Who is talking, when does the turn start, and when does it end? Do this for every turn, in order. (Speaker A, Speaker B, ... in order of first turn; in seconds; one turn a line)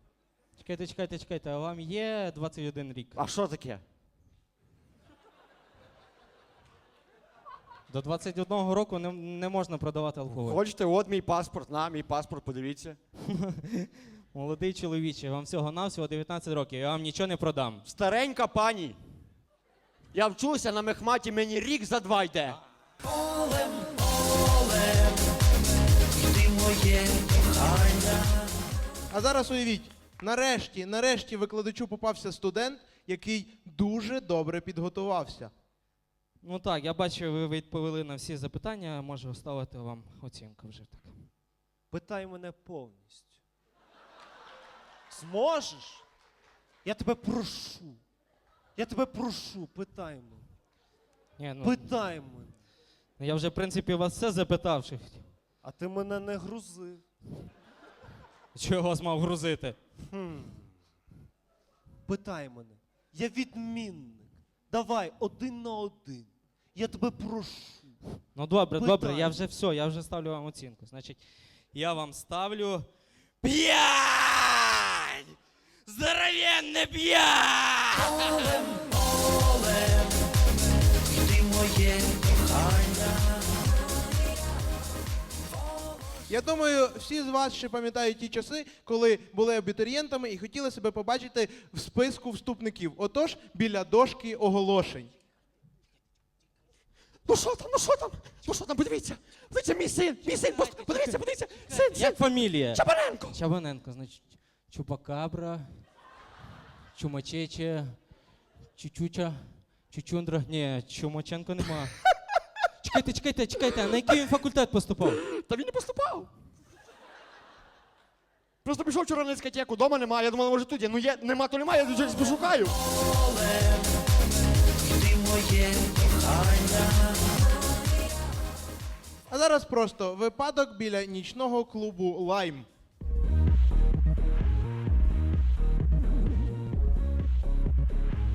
Speaker A: 0.6-3.2
Speaker B: 3.1-3.8
Speaker A: 7.9-10.6
Speaker B: 10.3-13.0
Speaker A: 13.4-17.8
Speaker B: 17.8-19.0
Speaker B: 20.1-22.6
Speaker C: 29.1-35.5
Speaker A: 36.4-41.3
Speaker D: 41.9-43.4
Speaker D: 45.1-46.0
Speaker D: 46.8-48.0
Speaker D: 48.8-50.5
Speaker A: 51.4-51.9
Speaker D: 51.6-52.6
Speaker A: 53.2-55.3
Speaker D: 55.6-57.0
Speaker A: 58.5-59.8
Speaker D: 60.1-60.6
Speaker D: 62.0-68.0
Speaker A: 68.3-72.9
Speaker D: 68.8-69.3
Speaker A: 73.4-78.4
Speaker C: 86.3-95.1
Speaker B: 97.2-103.4
Speaker A: 101.8-105.8
Speaker A: 106.9-108.1
Speaker A: 108.7-112.0
Speaker A: 112.8-115.2
Speaker B: 115.3-116.3
Speaker B: 118.6-122.7
Speaker C: 129.3-132.7